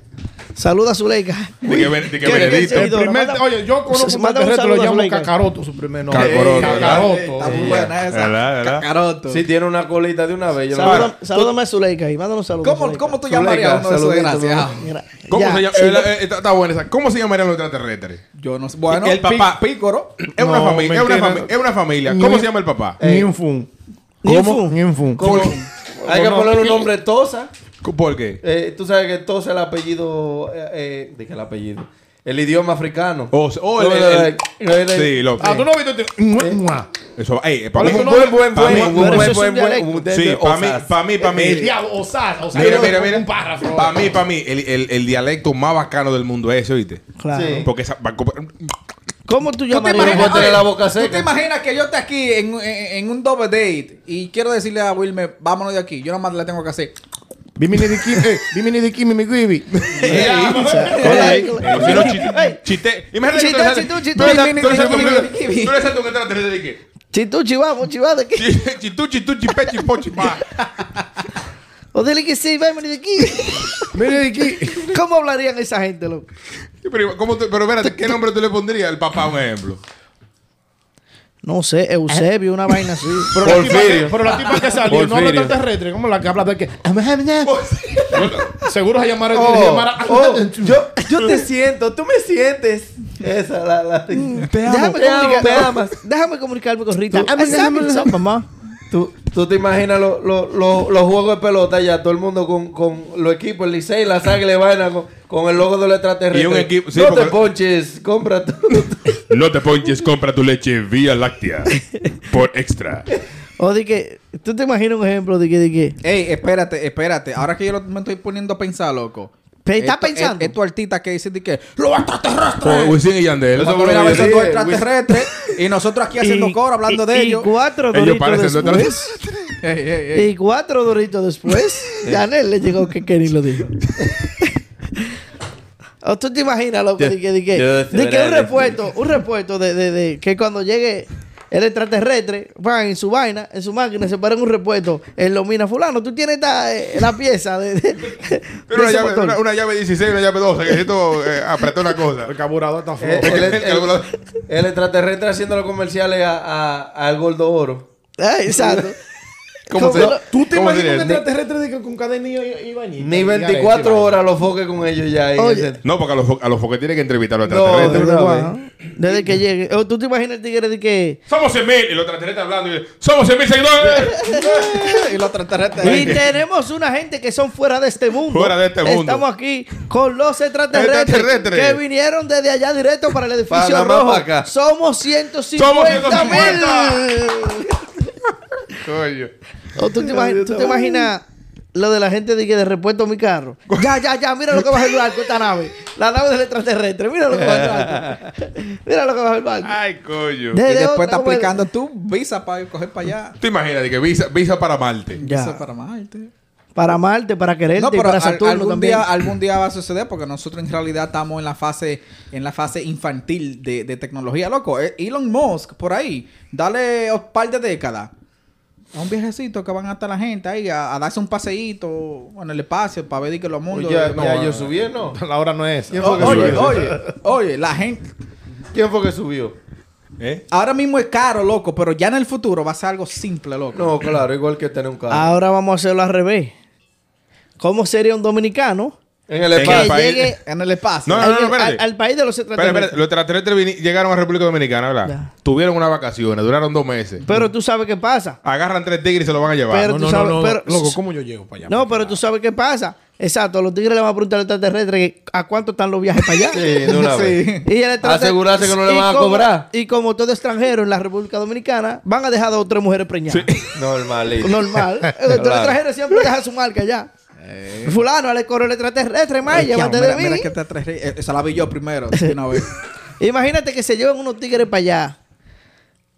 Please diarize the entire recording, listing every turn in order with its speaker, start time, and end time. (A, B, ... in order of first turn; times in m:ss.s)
0:00.6-0:05.3 A
0:01.6-0:02.9 B
0:02.6-0:07.8 C
0:06.1-0:08.9 B
0:06.1-0:09.4 D
0:06.6-0:07.9 E
0:09.3-0:11.2 E
0:10.7-0:13.2 A
0:10.8-0:11.2 B
0:12.6-0:14.9 D
0:13.3-0:14.8 E
0:14.8-0:16.1 A
0:15.3-0:18.2 B
0:18.4-0:20.2 D
0:18.9-0:19.6 B
0:20.2-0:23.0 B
0:20.4-0:21.5 C
0:22.1-0:22.5 C
0:23.0-0:23.3 E
0:23.0-0:23.7 C
0:24.2-0:24.8 A
0:24.2-0:26.9 C
0:25.2-0:27.5 E
0:25.2-0:25.6 B
0:25.2-0:25.6 D
0:27.8-0:28.4 B
0:28.4-0:35.2 E
0:33.3-0:34.4 B
0:34.9-0:35.7 B
0:35.4-0:36.9 C
0:37.2-0:39.4 B
0:37.8-0:39.3 C
0:37.8-0:40.9 E
0:38.8-0:39.9 A
0:40.1-0:41.7 B
0:41.2-0:44.1 C
0:42.5-0:47.1 B
0:42.6-0:42.9 D
0:47.2-0:47.7 A
0:47.3-0:47.7 E
0:47.6-0:48.7 B
0:49.3-0:50.6 A
0:49.7-0:57.0 D
0:49.9-0:51.3 E
0:57.6-1:02.0 C
0:59.8-1:06.8 B
1:00.0-1:02.1 D
1:00.0-1:02.6 A
1:03.3-1:05.3 A
1:04.2-1:05.8 D
1:07.1-1:08.5 A
1:08.4-1:10.6 B
1:11.9-1:14.0 A
1:13.9-1:15.0 C
1:14.8-1:16.3 A
1:16.8-1:19.8 B
1:17.8-1:18.2 A
1:21.4-1:23.4 A
1:23.3-1:27.6 C
1:23.4-1:25.5 E
1:23.5-1:23.8 B
1:24.9-1:25.2 B
1:27.4-1:28.6 B
1:28.1-1:30.8 C
1:29.3-1:35.9 E
1:31.2-1:31.4 A
1:34.1-1:38.5 A
1:34.4-1:35.5 B
1:37.1-1:38.2 C
1:38.9-1:49.2 E
1:46.3-1:47.4 B
1:49.3-1:53.1 B
1:53.6-1:56.0 A
1:56.0-2:03.0 D
1:59.6-2:00.6 A
2:02.6-2:04.4 B
2:03.6-2:04.9 E
2:03.6-2:07.5 D
2:06.2-2:09.1 A
2:07.9-2:09.1 B
2:09.6-2:10.3 D
2:10.1-2:13.8 A
2:14.4-2:15.1 A
2:16.0-2:29.4 A
2:17.0-2:18.9 E
2:28.7-2:32.4 B
2:32.2-2:33.6 C
2:33.0-2:37.8 E
2:33.2-2:34.2 B
2:38.2-2:39.0 A
2:38.5-2:38.9 E
2:39.7-2:40.2 A
2:39.7-2:40.2 E
2:39.8-2:41.2 B
2:40.1-2:44.2 C
2:43.0-2:45.8 E
2:45.4-2:45.7 A
2:45.8-2:48.1 B
2:47.4-2:48.5 E
2:47.8-2:51.2 A
2:51.3-2:55.1 B
2:54.1-2:54.5 A
2:54.4-2:56.2 D
2:55.8-2:56.2 B
2:55.8-3:08.0 A
2:58.3-2:59.2 B
3:00.7-3:01.8 B
3:03.5-3:04.5 E
3:05.6-3:07.2 B
3:08.8-3:09.3 B
3:09.8-3:19.8 A
3:10.0-3:11.1 E
3:13.7-3:14.0 B
3:14.6-3:14.8 B
3:17.3-3:18.2 E
3:19.6-3:20.6 B
3:20.5-3:21.5 A
3:20.6-3:23.4 D
3:23.4-3:25.2 B
3:25.2-3:26.3 D
3:25.2-3:25.6 A
3:26.8-3:29.1 A
3:27.8-3:38.1 D
3:38.9-3:44.4 D
3:43.7-3:45.2 E
3:44.2-3:44.6 B
3:45.1-3:46.9 C
3:45.9-3:47.0 E
3:46.0-3:48.1 D
3:46.1-3:46.8 B
3:48.7-3:49.6 E
3:50.2-3:50.4 B
3:50.5-3:53.9 D
3:53.8-3:55.3 E
3:55.1-3:56.5 A
3:57.6-3:59.0 A
3:59.3-3:59.9 E
3:59.5-4:00.4 B
3:59.6-4:00.4 A
4:00.4-4:01.3 D
4:01.0-4:01.8 B
4:01.2-4:03.0 A
4:02.6-4:07.2 B
4:07.3-4:08.4 A
4:08.4-4:10.0 B
4:09.7-4:11.0 A
4:09.8-4:12.2 C
4:11.7-4:16.6 A
4:16.5-4:17.4 E
4:16.8-4:17.7 D
4:17.6-4:23.5 A
4:18.0-4:19.7 E
4:23.3-4:23.8 B
4:23.7-4:24.6 E
4:24.4-4:27.1 A
4:25.3-4:25.8 E
4:27.4-4:28.0 D
4:27.8-4:30.5 A
4:29.5-4:32.7 D
4:33.2-4:35.2 A